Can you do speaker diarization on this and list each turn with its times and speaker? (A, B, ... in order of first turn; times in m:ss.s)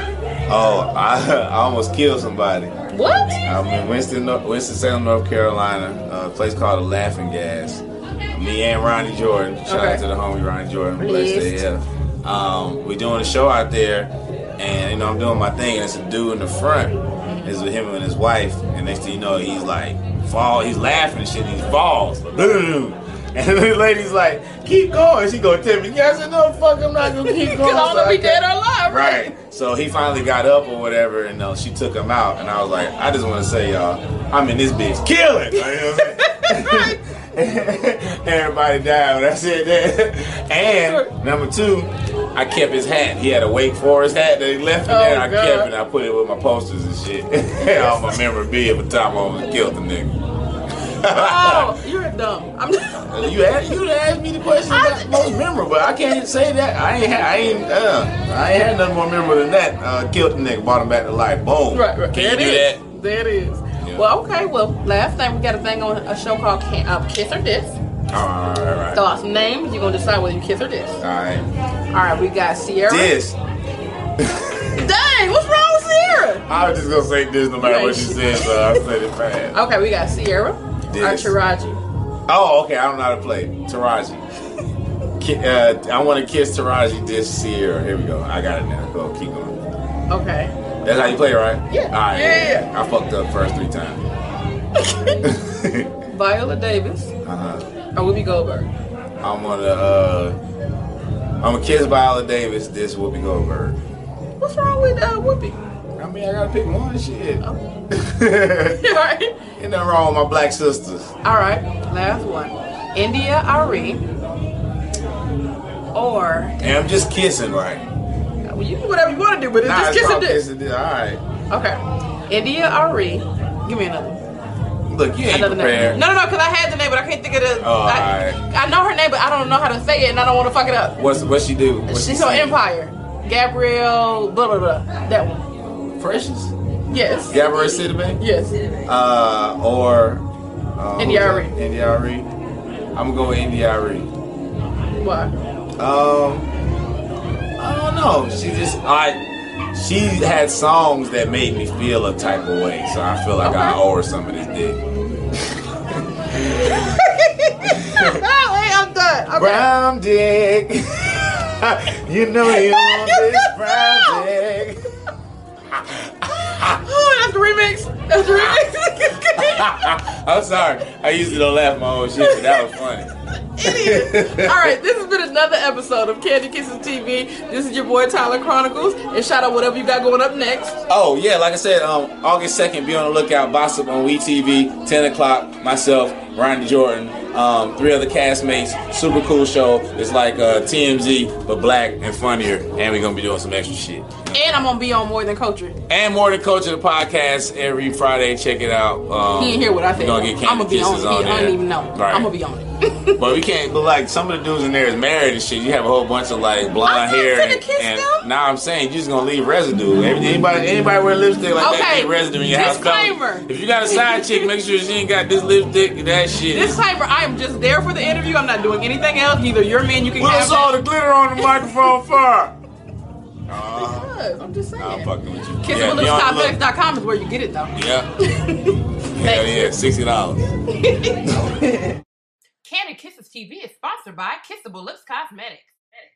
0:00.5-0:02.7 A
0:02.9-0:03.4 B
0:03.4-0:50.1 A
0:09.7-0:10.0 B
0:11.0-0:11.6 B
0:17.2-0:17.6 B
0:27.1-0:29.3 B
0:35.7-0:37.0 B
0:40.6-0:41.1 B
0:44.8-0:45.7 B
0:47.6-0:48.2 B
0:50.8-0:51.7 A
0:51.1-0:53.3 B
0:52.8-1:02.8 A
0:54.7-0:55.4 B
1:01.7-1:07.8 B
1:03.8-1:04.0 A
1:08.1-1:09.0 A
1:08.9-1:11.0 B
1:11.0-1:11.5 A
1:11.9-1:13.1 B
1:12.9-1:13.4 A
1:14.2-1:14.7 A
1:14.7-1:16.4 B
1:16.4-1:19.6 A
1:17.6-1:18.8 B
1:19.5-1:21.8 B
1:20.9-1:21.3 A
1:22.3-1:24.2 A
1:25.2-1:29.6 A
1:30.1-1:30.5 B
1:30.8-1:34.0 A
1:31.7-1:32.7 B
1:34.8-1:35.2 B
1:35.2-1:35.9 A
1:36.1-1:37.1 B
1:37.2-1:37.6 A
1:37.9-1:38.7 B
1:39.2-1:40.4 A
1:41.4-1:43.8 A
1:44.4-1:45.6 B
1:46.0-1:48.8 A
1:48.7-1:49.4 B
1:49.6-1:51.1 A
1:51.2-1:54.0 B
1:55.9-1:56.9 B
1:56.6-1:57.8 A
1:58.4-2:00.4 B
1:59.6-2:01.2 A
2:01.5-2:04.2 B
2:04.9-2:06.0 A
2:05.3-2:11.0 B
2:07.6-2:08.4 A
2:11.0-2:12.6 A
2:11.9-2:15.4 B
2:16.0-2:16.5 A
2:16.9-2:18.7 B
2:17.3-2:18.2 A
2:18.8-2:20.2 A
2:20.8-2:22.3 A
2:21.0-2:21.5 B
2:22.9-2:24.1 A
2:25.0-2:25.3 B
2:25.8-2:26.5 A
2:27.6-2:29.2 A
2:29.7-2:34.8 A
2:33.4-2:33.8 B
2:35.9-2:36.9 A
2:36.7-2:39.7 B
2:37.7-2:38.1 A
2:39.4-2:44.8 A
2:42.4-2:44.2 B
2:45.7-2:46.8 A
2:46.4-2:49.9 B
2:49.3-2:54.7 A
2:52.2-2:52.7 B
2:53.6-3:00.8 B
3:00.9-3:14.6 A
3:14.3-3:15.8 B
3:15.9-3:22.3 A
3:19.4-3:23.2 B
3:23.2-3:36.8 A
3:26.8-3:28.2 B
3:31.6-3:34.5 B
3:36.5-3:40.8 B
3:40.2-3:42.5 A
3:43.5-3:44.1 A
3:43.7-3:45.1 B
3:44.8-3:46.6 A
3:45.6-3:49.8 B
3:47.7-3:48.1 A
3:49.1-3:50.5 A
3:50.7-3:51.8 B
3:52.6-3:55.8 B